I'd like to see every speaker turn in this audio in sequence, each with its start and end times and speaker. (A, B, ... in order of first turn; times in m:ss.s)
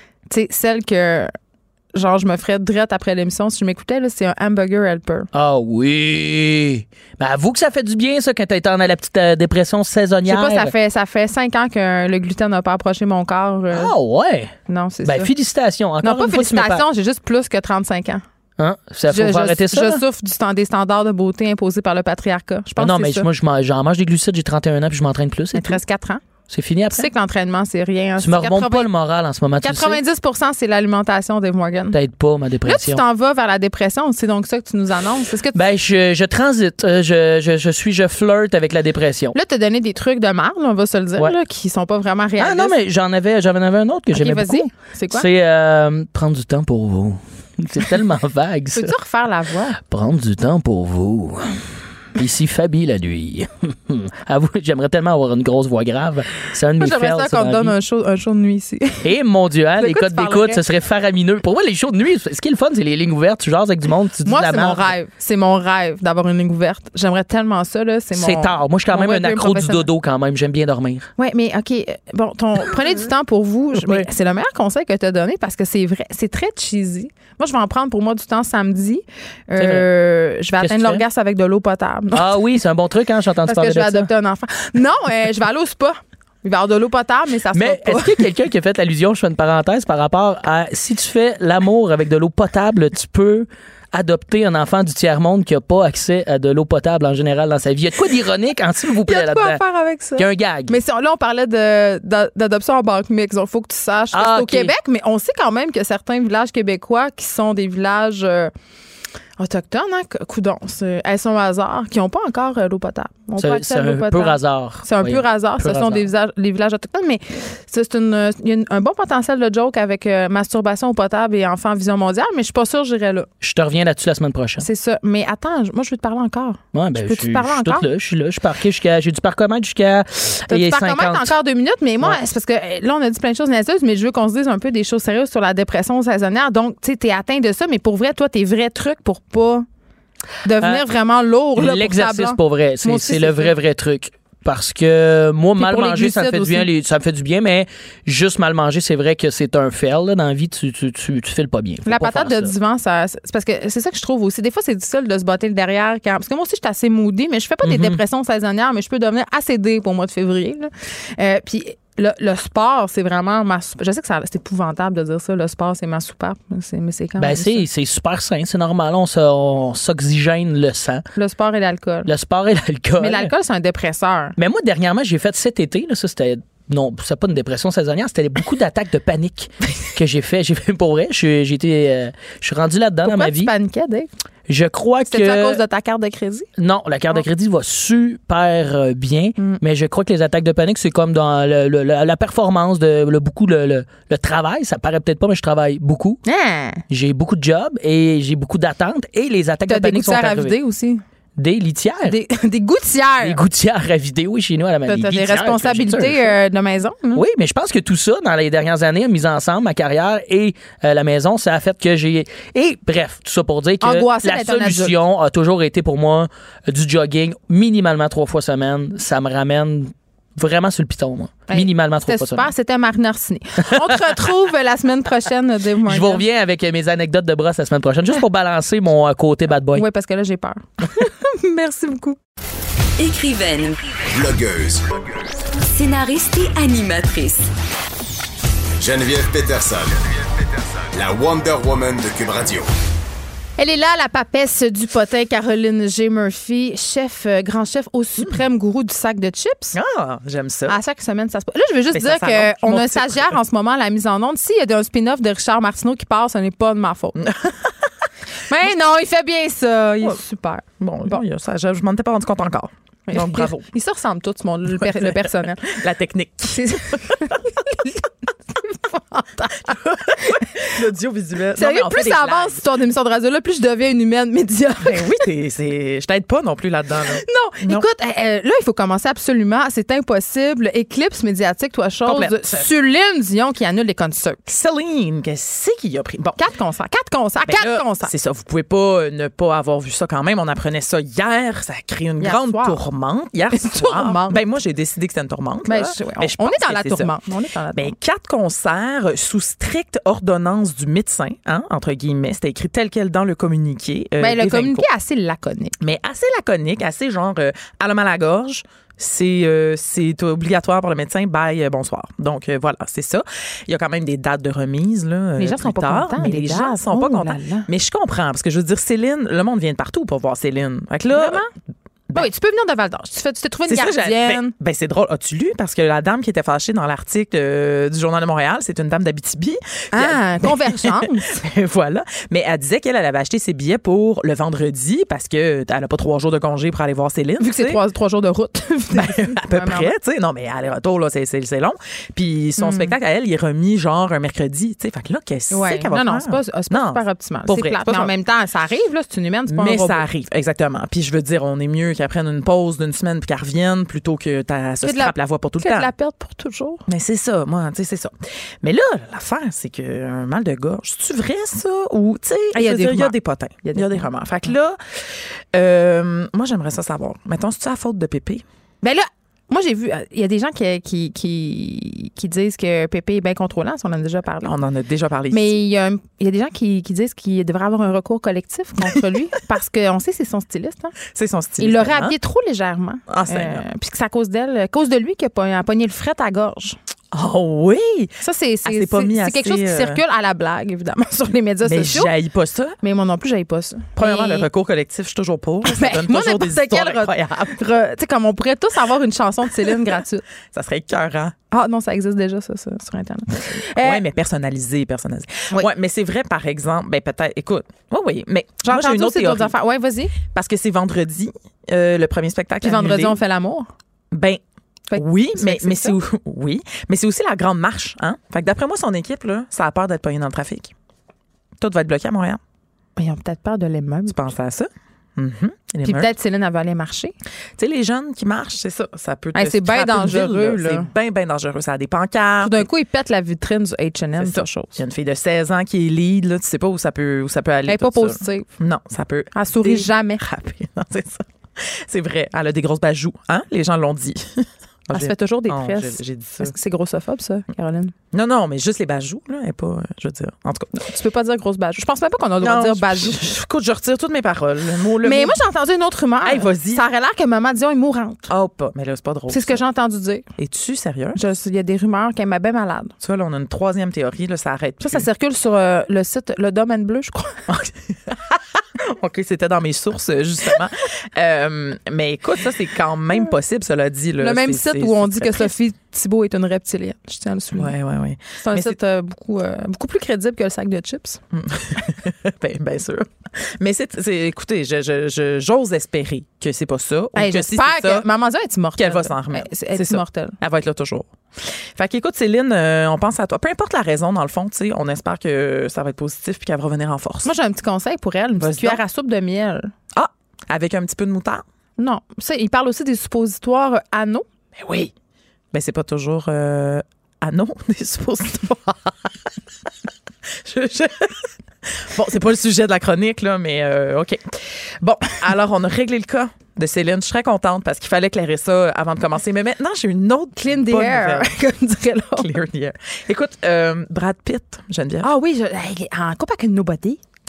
0:00.3-0:01.3 A
0:01.9-0:05.3 A
0:05.3-0:10.7 B
0:10.3-0:13.9 A
0:13.7-0:14.5 B
0:14.7-0:15.3 A
0:15.0-0:16.8 B
0:16.0-0:18.2 A
0:18.6-0:20.0 B
0:19.1-0:23.3 A
0:22.8-0:25.8 B
0:25.5-0:26.2 A
0:26.5-0:27.1 B
0:26.9-0:28.9 A
0:28.2-0:30.0 B
0:29.6-0:32.0 A
0:31.9-0:33.0 B
0:32.6-0:35.6 A
0:35.5-0:39.3 B
0:39.3-0:42.8 A
0:42.4-0:48.9 B
0:44.1-0:45.2 A
0:48.7-0:49.8 A
0:49.8-0:57.7 B
0:56.8-0:59.1 A
0:59.0-1:04.9 B
0:59.8-1:00.6 A
1:04.2-1:09.8 A
1:08.1-1:11.1 B
1:11.2-1:22.4 A
1:13.7-1:14.1 B
1:19.6-1:19.9 B
1:20.6-1:21.0 B
1:22.1-1:24.1 B
1:23.5-1:28.3 A
1:27.5-1:39.6 B
1:39.0-1:48.5 A
1:40.2-1:40.8 B
1:44.1-1:44.7 B
1:49.4-2:03.3 A
1:53.4-1:56.1 B
2:03.4-2:04.6 B
2:04.6-2:07.9 A
2:06.7-2:11.3 B
2:10.5-2:19.6 A
2:20.4-2:23.5 A
2:21.6-2:32.5 B
2:25.6-2:26.7 A
2:31.8-2:47.6 A
2:37.6-2:38.0 B
2:47.2-2:51.0 B
2:51.2-2:52.1 A
2:52.0-2:53.3 B
2:53.0-2:54.3 A
2:54.4-3:03.5 B
3:03.0-3:04.1 A
3:04.5-3:05.6 B
3:05.1-3:06.5 A
3:06.6-3:16.2 B
3:16.2-3:16.8 A
3:16.9-3:20.6 B
3:19.7-3:21.0 A
3:21.4-3:22.2 B
3:22.0-3:23.4 A
3:23.2-3:26.3 B
3:24.9-3:27.2 A
3:27.1-3:42.5 B
3:33.8-3:34.9 A
3:41.5-3:46.2 A
3:45.8-3:49.9 B
3:49.7-3:52.2 A
3:53.0-3:53.9 C
3:54.1-3:55.1 D
3:55.6-3:57.5 C
3:58.8-4:02.7 D
4:03.6-4:09.8 A
4:09.7-4:10.8 E
4:10.7-4:17.2 A
4:11.9-4:13.3 E
4:17.2-4:17.7 E
4:18.5-4:21.2 A
4:20.8-4:23.7 E
4:23.1-4:25.8 A
4:24.8-4:27.4 E
4:26.5-4:30.6 A
4:29.7-4:32.6 E
4:31.6-4:35.2 A
4:34.8-4:37.8 E
4:37.2-4:44.4 A
4:42.0-4:42.7 E
4:44.5-4:46.4 E
4:46.3-4:48.1 A
4:47.4-4:57.1 E
4:52.2-4:52.8 A
4:53.5-4:54.4 A
4:55.7-4:57.9 A
4:57.7-5:04.9 E
5:04.2-5:05.8 A
5:05.8-5:21.4 E
5:15.4-5:17.7 A
5:21.0-5:21.5 A
5:22.1-5:24.5 A
5:23.7-5:37.8 E
5:29.9-5:31.5 A
5:37.4-5:39.9 A
5:38.9-5:48.1 E
5:42.6-5:43.0 A
5:45.5-5:50.0 A
5:49.5-5:55.9 E
5:54.8-5:56.8 A
5:56.8-6:04.8 E
6:02.5-6:04.1 A
6:05.5-6:08.4 E
6:08.8-6:14.5 A
6:14.4-6:15.5 E
6:15.3-6:20.9 A
6:21.1-6:22.2 E
6:21.6-6:26.8 A
6:23.1-6:23.6 E
6:27.1-6:30.0 E
6:28.2-6:32.1 A
6:31.6-6:32.8 E
6:32.8-6:34.5 A
6:34.0-6:37.6 E
6:35.6-6:40.2 A
6:40.5-6:41.3 E
6:41.5-6:44.0 A
6:43.6-6:49.6 E
6:48.6-6:50.2 A
6:50.2-6:53.2 E
6:52.6-6:53.7 A
6:54.1-6:54.4 E
6:54.9-6:56.0 A
6:54.9-7:00.7 E
7:01.6-7:02.4 E
7:03.0-7:04.3 A
7:04.1-7:06.1 E
7:05.8-7:07.1 A
7:07.6-7:12.7 E
7:09.3-7:10.9 A
7:12.4-7:14.7 A
7:14.2-7:26.5 E
7:17.7-7:18.5 A
7:19.3-7:20.2 A
7:24.9-7:27.9 A
7:28.1-7:30.8 E
7:30.8-7:33.3 A
7:32.4-7:35.4 E
7:35.0-7:38.3 A
7:36.2-7:36.8 E
7:38.3-7:39.6 E
7:39.3-7:40.3 A
7:40.4-7:41.2 E
7:41.1-7:42.9 A
7:43.0-7:45.1 E
7:44.8-7:47.3 A
7:47.5-7:55.5 E
7:54.2-7:57.7 A
7:57.5-7:58.8 E
7:58.4-8:01.2 A
8:01.3-8:08.0 E
8:07.1-8:10.4 A
8:08.8-8:17.3 E
8:17.2-8:19.7 A
8:18.4-8:18.8 E
8:19.9-8:21.4 E
8:21.8-8:24.2 A
8:24.6-8:24.9 E
8:25.5-8:29.1 E
8:30.4-8:31.3 E
8:31.8-8:41.3 E
8:40.4-8:42.3 A
8:42.1-8:45.1 E
8:45.0-8:47.0 A